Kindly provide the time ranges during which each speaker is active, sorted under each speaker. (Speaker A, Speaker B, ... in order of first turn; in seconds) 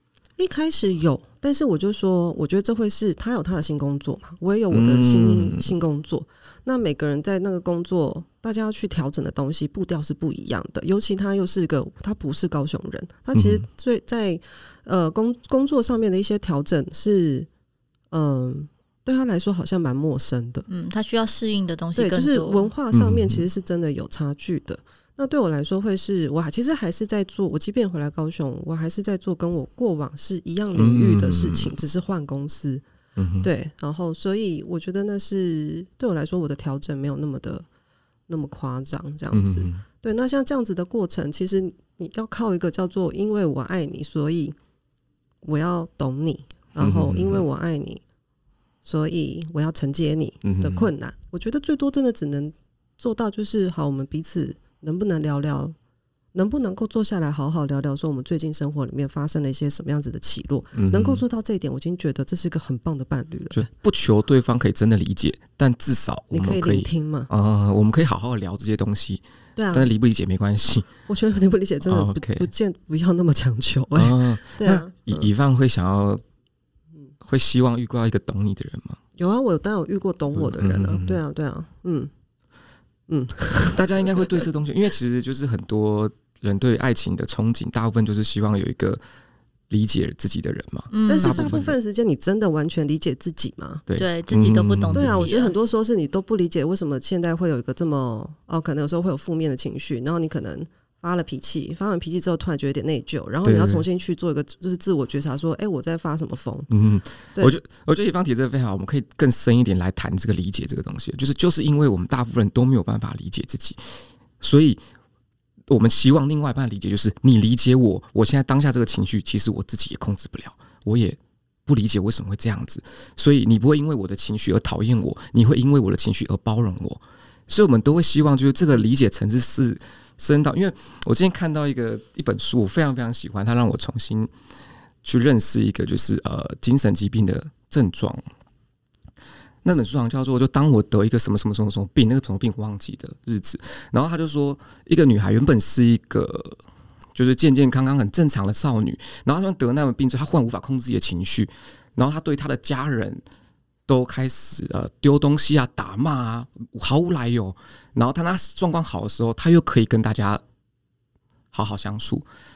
Speaker A: 0.4-17.5, 18.1-20.7, 22.0-32.8, 33.4-37.7, 38.3-44.6, 45.4-48.0, 48.8-55.8, 56.3-63.7, 66.3-67.3, 69.6-69.9, 71.1-75.3, 79.2-82.1, 83.1-84.4, 91.1-93.8, 94.9-106.7
Speaker B: 4.7-5.7, 13.3-13.7, 22.9-23.4, 30.7-31.8, 33.2-33.5, 39.3-39.8, 46.8-47.4, 50.4-50.9, 60.7-61.2, 63.5-70.9, 71.8-72.5, 74.0-76.2, 77.2-79.0, 80.3-81.2, 83.7-89.0, 89.7-91.8, 93.9-95.3, 103.4-103.9, 106.7-114.8, 115.7-134.3, 135.0-138.3, 139.6-146.6, 147.2-153.2, 153.9-160.4, 161.5-162.3
Speaker C: 20.7-22.7, 90.9-91.5, 94.0-95.6